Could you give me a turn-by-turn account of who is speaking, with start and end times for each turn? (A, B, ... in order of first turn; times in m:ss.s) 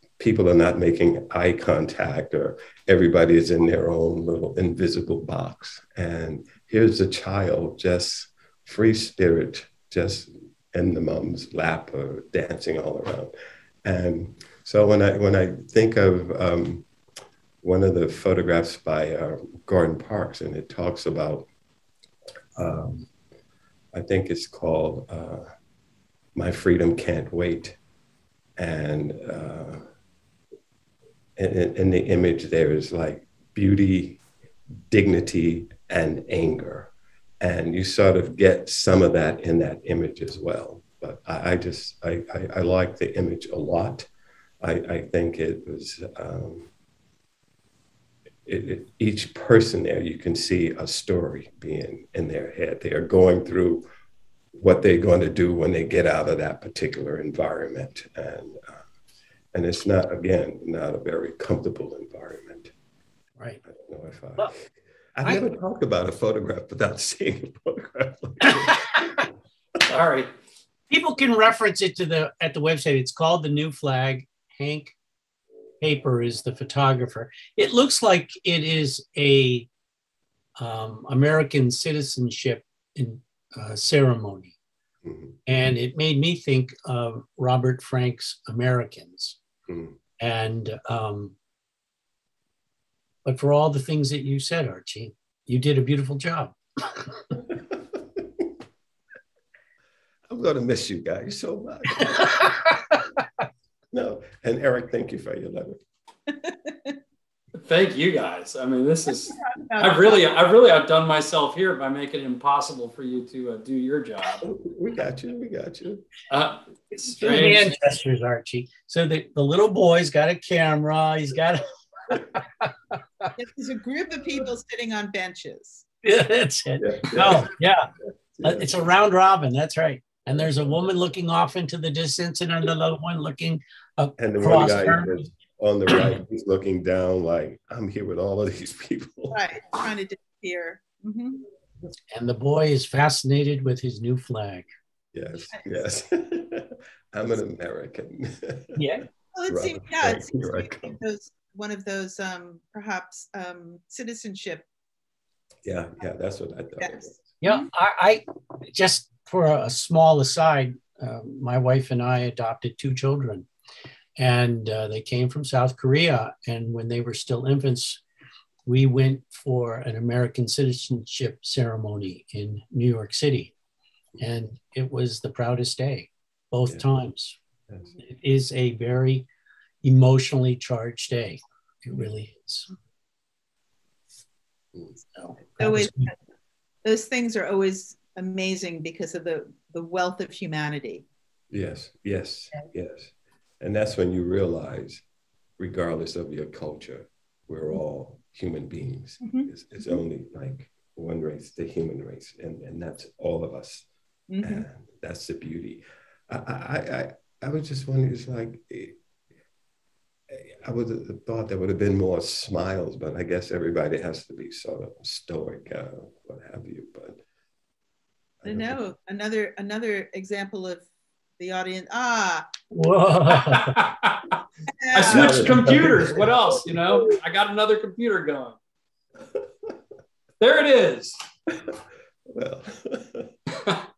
0:00.2-0:13.3 A
0:13.8-0:16.9 A
0:17.6-0:21.5 A
0:22.6-0:23.1 A
0:23.9-0:25.5 A
0:26.3-0:27.8 A
0:28.6-0:29.8 A
0:31.4-0:34.2 A
0:34.9-0:44.1 A
0:44.6-0:46.7 A
0:48.4-0:53.8 A
0:54.5-0:58.8 A
0:59.5-1:02.7 A
1:03.6-1:09.2 A
1:05.2-1:05.5 B
1:09.9-1:10.3 C
1:10.9-1:15.0 B
1:15.8-1:19.7 B
1:20.6-1:24.5 B
1:25.0-1:25.4 A
1:25.4-1:29.4 B
1:29.7-1:30.0 A
1:30.2-1:31.4 B
1:33.2-1:37.2 B
1:37.5-1:38.5 A
1:40.3-1:42.7 A
1:43.9-1:45.8 A
1:46.3-1:46.9 D
1:47.6-1:54.5 C
1:49.3-1:50.4 D
1:54.4-1:56.1 A
1:56.3-1:57.8 C
1:57.2-2:03.3 B
2:03.4-2:05.8 D
2:06.0-2:07.9 B
2:06.8-2:07.5 A
2:08.4-2:08.7 A
2:08.4-2:15.1 B
2:14.2-2:19.4 A
2:19.3-2:21.4 D
2:22.1-2:24.7 B
2:25.1-2:28.9 A
2:28.8-2:29.1 B
2:29.3-2:34.6 D
2:29.5-2:31.0 A
2:35.6-2:37.3 A
2:36.8-2:37.6 D
2:37.4-2:43.5 B
2:44.2-2:48.0 B
2:48.6-2:53.5 B
2:54.2-2:57.4 B
2:58.0-2:59.3 B
2:59.8-3:02.7 B
3:05.2-3:06.1 B
3:05.6-3:06.1 D
3:06.8-3:11.0 D
3:11.5-3:15.0 A
3:15.6-3:23.9 A
3:19.2-3:20.0 D
3:24.3-3:24.6 D
3:24.4-3:29.0 A
3:30.3-3:37.2 A
3:38.4-3:38.8 A
3:38.4-3:40.9 D
3:41.4-3:42.5 D
3:42.7-3:43.8 B
3:43.4-3:44.4 C
3:44.7-3:45.6 D
3:44.9-3:48.6 C
3:45.0-3:46.7 A
3:49.3-3:49.7 A
3:50.4-3:51.2 C
3:51.5-3:53.3 A